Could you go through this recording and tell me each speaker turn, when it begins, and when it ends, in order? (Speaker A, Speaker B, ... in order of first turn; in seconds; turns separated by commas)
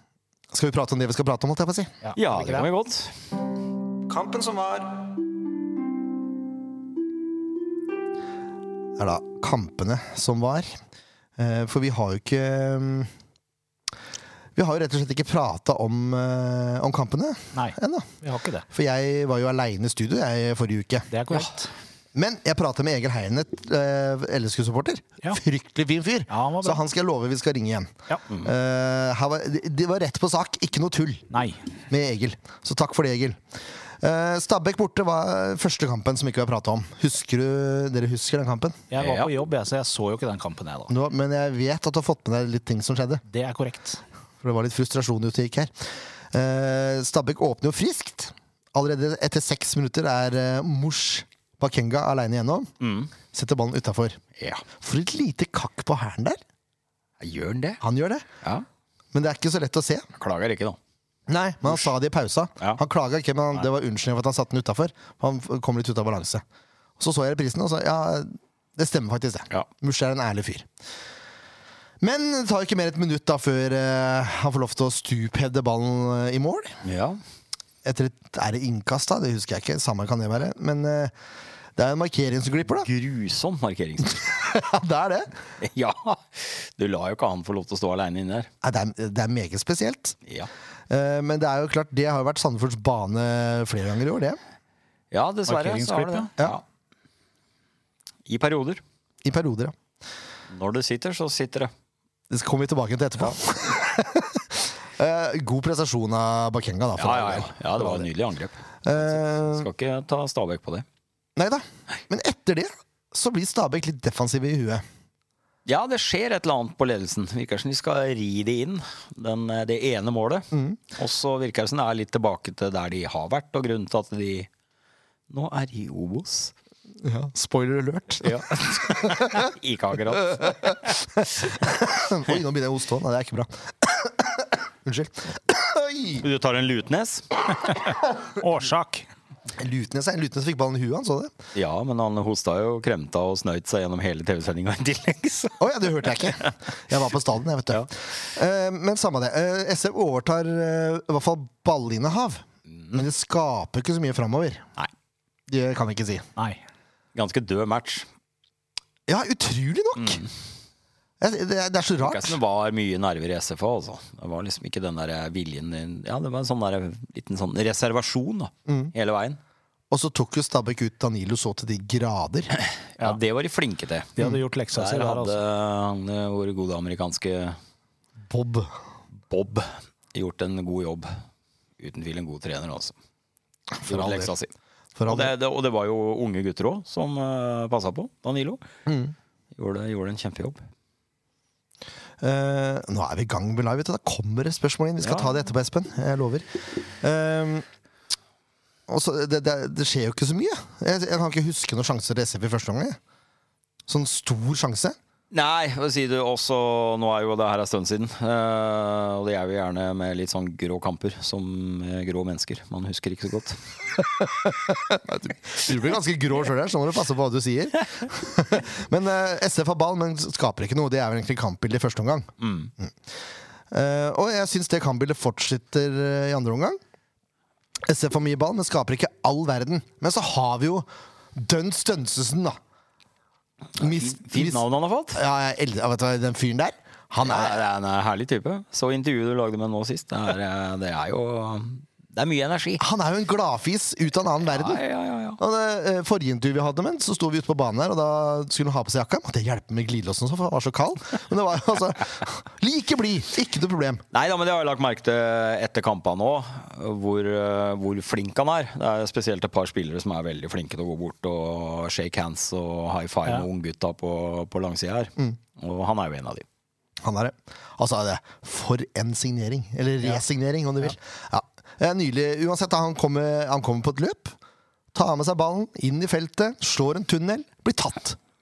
Speaker A: 0.5-1.9, Speaker B: 2.0-2.7, Speaker C: 2.1-3.2, Speaker A: 4.1-5.0, Speaker A: 9.0-10.7, Speaker A: 11.4-13.1, Speaker A: 14.6-18.1, Speaker B: 17.5-18.7, Speaker A: 18.7-21.1, Speaker B: 21.1-21.7, Speaker A: 22.1-31.3, Speaker B: 26.3-26.8, Speaker B: 31.3-31.6, Speaker A: 31.9-33.4, Speaker A: 34.0-38.8, Speaker B: 38.9-40.9, Speaker C: 39.0-39.3, Speaker A: 40.9-43.2, Speaker B: 43.3-44.0, Speaker A: 44.4-45.7, Speaker A: 46.3-52.7, Speaker C: 52.8-53.1, Speaker A: 53.3-54.2, Speaker C: 54.4-54.6, Speaker A: 54.8-56.4, Speaker C: 57.2-57.8, Speaker A: 57.8-58.3, Speaker A: 59.1-60.1, Speaker C: 60.2-60.8, Speaker A: 61.3-66.4, Speaker A: 67.0-70.7, Speaker A: 72.0-76.8, Speaker C: 76.8-77.2, Speaker A: 77.8-81.1, Speaker A: 81.8-82.9, Speaker C: 82.8-84.4, Speaker A: 84.2-85.3, Speaker C: 85.6-88.5, Speaker A: 88.6-90.2, Speaker A: 90.9-94.4, Speaker C: 95.1-96.6, Speaker B: 95.5-96.3, Speaker C: 98.3-98.8, Speaker A: 99.2-99.7, Speaker C: 100.5-101.7, Speaker A: 102.3-108.1, Speaker C: 107.0-110.9, Speaker A: 108.8-109.7, Speaker A: 111.4-114.8, Speaker C: 115.7-124.5, Speaker A: 120.5-120.8, Speaker C: 125.3-126.5, Speaker A: 127.0-129.5, Speaker C: 128.2-131.0, Speaker A: 130.1-136.2, Speaker C: 136.2-137.5, Speaker B: 138.3-139.1, Speaker A: 139.6-141.3, Speaker C: 141.5-146.5, Speaker A: 145.6-154.7, Speaker C: 152.8-153.0, Speaker A: 155.5-156.3, Speaker C: 157.2-158.1, Speaker A: 159.1-160.2, Speaker C: 160.0-160.3, Speaker A: 161.2-162.4, Speaker C: 162.0-169.4, Speaker A: 168.7-168.9, Speaker A: 169.9-172.5, Speaker C: 172.6-174.2, Speaker B: 174.2-175.4, Speaker C: 174.7-177.6, Speaker A: 178.3-178.8, Speaker C: 179.3-181.2, Speaker C: 181.8-183.0, Speaker A: 183.7-184.3, Speaker C: 183.8-184.5, Speaker A: 185.0-185.3, Speaker C: 185.1-188.6, Speaker A: 188.9-189.1, Speaker C: 189.6-190.6, Speaker A: 192.2-197.7, Speaker C: 195.0-195.4, Speaker A: 198.9-203.0, Speaker A: 203.9-205.0, Speaker C: 205.3-213.6, Speaker A: 214.0-222.9, Speaker C: 222.4-222.7, Speaker A: 223.7-226.8, Speaker A: 227.9-232.6, Speaker C: 233.8-235.2, Speaker A: 233.8-234.6, Speaker A: 235.2-237.6, Speaker C: 237.2-242.8, Speaker A: 242.8-244.8, Speaker C: 244.4-245.4, Speaker A: 245.4-254.0, Speaker C: 254.1-266.5, Speaker A: 267.0-274.4, Speaker A: 274.9-278.2